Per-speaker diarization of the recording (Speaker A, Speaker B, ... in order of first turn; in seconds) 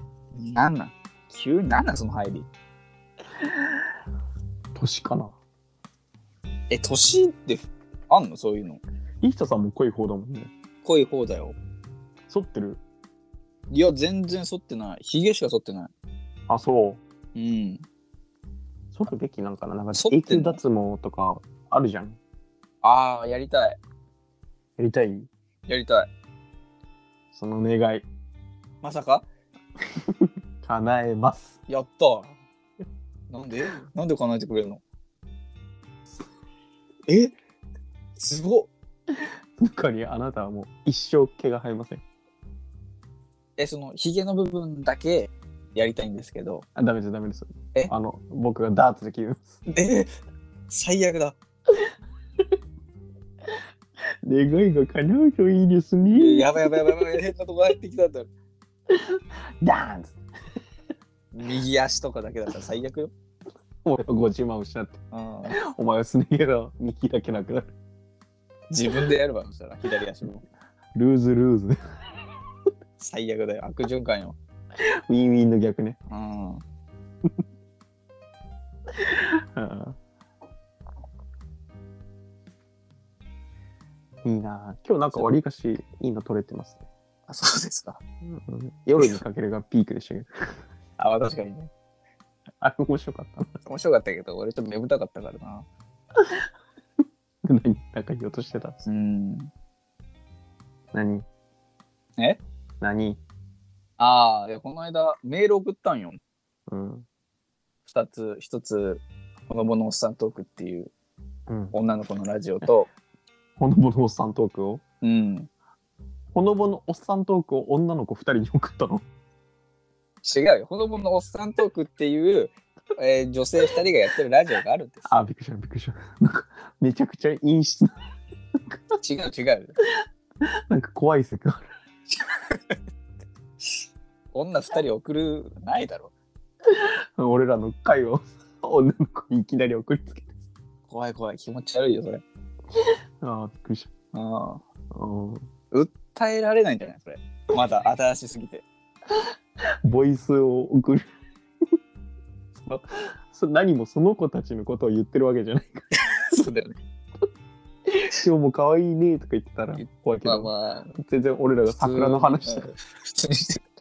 Speaker A: 0.3-2.5, 6.7-8.8, 10.8-11.6, 13.7-15.9, 17.3-17.8, 19.9-20.6, 22.8-23.8, 25.7-26.1, 28.8-29.2, 31.7-32.4, 33.3-34.8, 37.1-37.3, 38.1-38.7, 43.6-46.6, 49.6-50.1, 50.7-51.4, 56.1-58.3, 61.3-63.1, 65.1-65.6, 68.7-70.4, 73.0-74.4, 76.1-76.6, 87.3-88.0, 91.0-91.7, 93.6-95.7, 98.8-99.5, 102.2-102.4, 104.0-106.2, 107.8-110.9, 111.7-112.9, 115.0-115.5, 120.2-125.2, 129.0-129.8, 134.3-136.1, 140.9-142.2, 144.1-144.6, 145.7-148.7, 155.9-156.8, 159.7-160.9, 161.7-163.6
Speaker B: 4.7-5.3, 9.2-10.5, 12.3-12.8, 16.5-17.0, 18.9-22.2, 24.8-25.3, 27.3-28.1, 29.9-31.6, 39.1-42.0, 46.8-49.5, 54.2-57.1, 58.9-60.2, 63.8-65.0, 65.5-67.7, 70.9-71.8, 74.8-76.0, 78.9-80.0, 84.2-86.8, 88.2-90.6, 92.6-93.6, 96.2-96.5, 97.4-98.8, 100.9-101.2, 102.8-103.2, 106.7-107.0, 111.5-111.7, 113.6-114.8, 116.3-119.0, 125.0-128.0, 130.4-131.7, 136.6-140.3, 142.8-143.9, 144.9-145.5, 149.6-151.0, 152.7-155.8, 157.9-162.7